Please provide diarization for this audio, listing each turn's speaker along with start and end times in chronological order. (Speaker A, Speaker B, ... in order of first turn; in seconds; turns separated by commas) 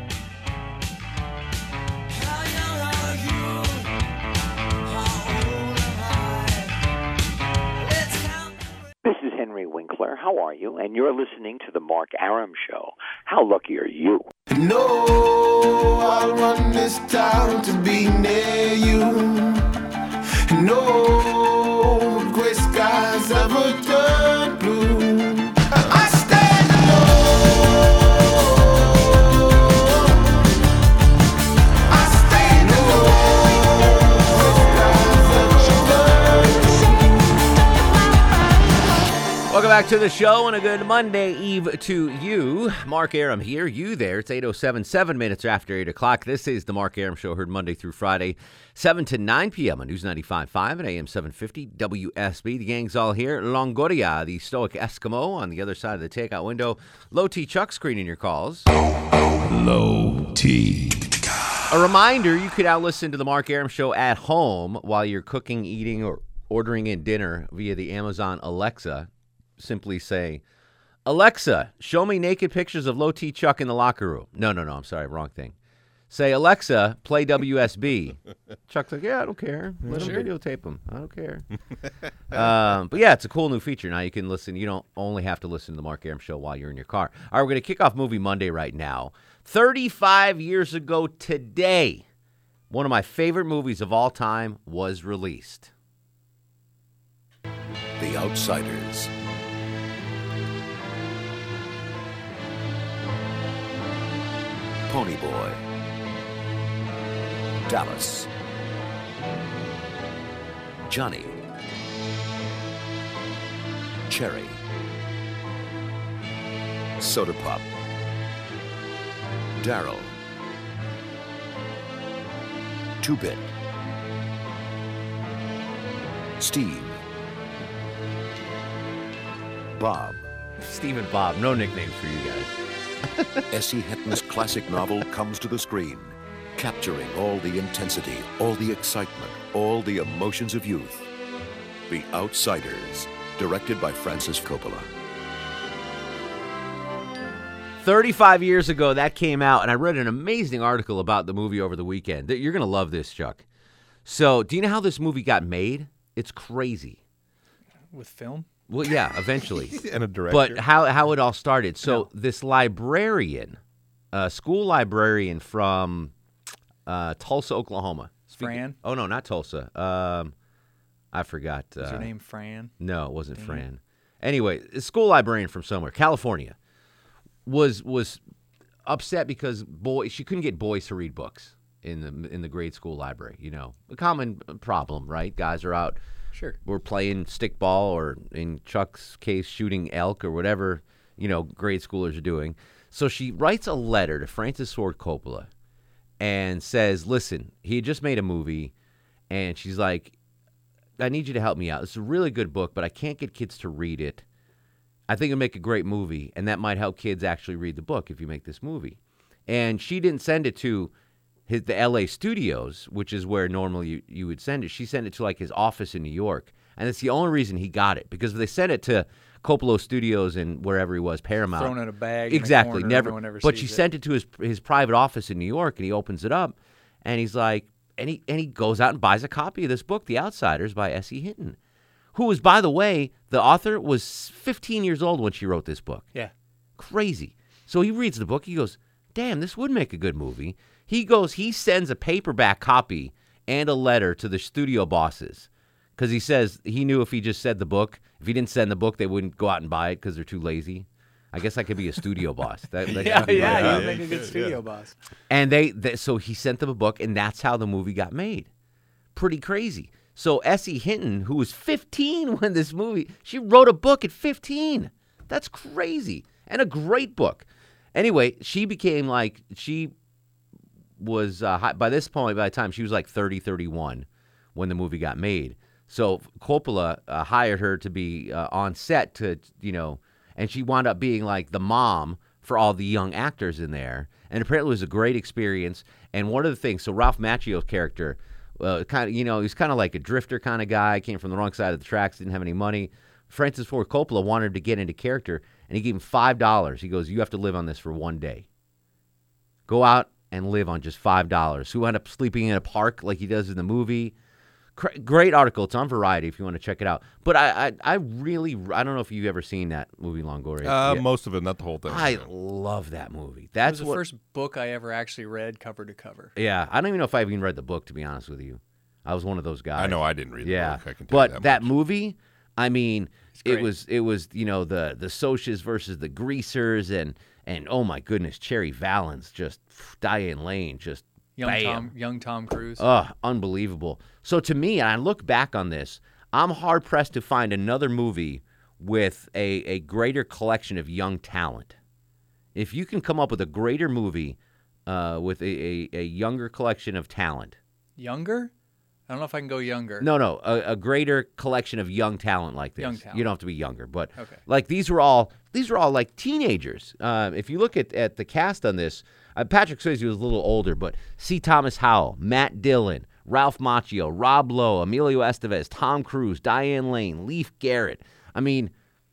Speaker A: 9.0-14.2, Speaker B: 14.5-19.6, Speaker B: 20.5-30.4, Speaker B: 31.9-36.9, Speaker C: 39.5-58.7, Speaker D: 59.5-61.1, Speaker C: 61.7-70.4, Speaker C: 71.0-75.5, Speaker C: 76.1-78.2, Speaker C: 78.7-81.4, Speaker E: 79.8-80.2, Speaker F: 79.9-80.3, Speaker C: 82.3-92.0, Speaker C: 92.7-95.7, Speaker D: 98.0-99.1, Speaker D: 104.9-105.6, Speaker D: 107.7-108.3, Speaker D: 110.9-111.4, Speaker D: 114.1-114.6, Speaker D: 117.0-117.6, Speaker D: 119.6-120.1, Speaker D: 123.0-123.4, Speaker D: 126.4-127.0, Speaker D: 129.7-130.2, Speaker C: 130.6-132.5, Speaker C: 133.1-133.4, Speaker D: 133.5-141.0, Speaker D: 141.9-144.9, Speaker C: 147.8-153.4, Speaker C: 154.0-157.0, Speaker F: 157.9-158.5, Speaker C: 158.7-159.8, Speaker E: 159.6-160.6, Speaker C: 160.3-163.6, Speaker C: 164.1-166.1, Speaker C: 166.8-170.3, Speaker F: 168.2-168.8, Speaker C: 171.1-172.1, Speaker F: 171.8-172.7, Speaker C: 172.8-176.6, Speaker F: 173.3-173.6, Speaker C: 177.4-178.2, Speaker C: 178.8-186.0, Speaker C: 186.6-195.5, Speaker C: 196.2-198.7, Speaker C: 199.3-200.1, Speaker C: 201.0-204.2, Speaker C: 205.1-210.9, Speaker C: 211.5-221.8, Speaker F: 221.5-223.8, Speaker C: 222.3-231.6, Speaker C: 232.1-236.1, Speaker C: 236.8-253.9, Speaker F: 252.9-254.9, Speaker E: 252.9-254.6, Speaker C: 255.3-258.5, Speaker C: 259.1-269.9, Speaker C: 271.0-298.4, Speaker C: 299.7-304.1, Speaker C: 304.8-311.0, Speaker E: 310.6-312.3, Speaker C: 311.9-314.0, Speaker F: 313.6-316.3, Speaker C: 316.3-331.9, Speaker E: 319.8-321.7, Speaker F: 323.3-323.7, Speaker F: 331.4-332.9, Speaker C: 332.8-341.8, Speaker C: 342.5-347.6, Speaker F: 348.0-348.5, Speaker F: 349.1-350.1, Speaker C: 350.0-368.7, Speaker F: 352.8-353.3, Speaker F: 354.1-354.4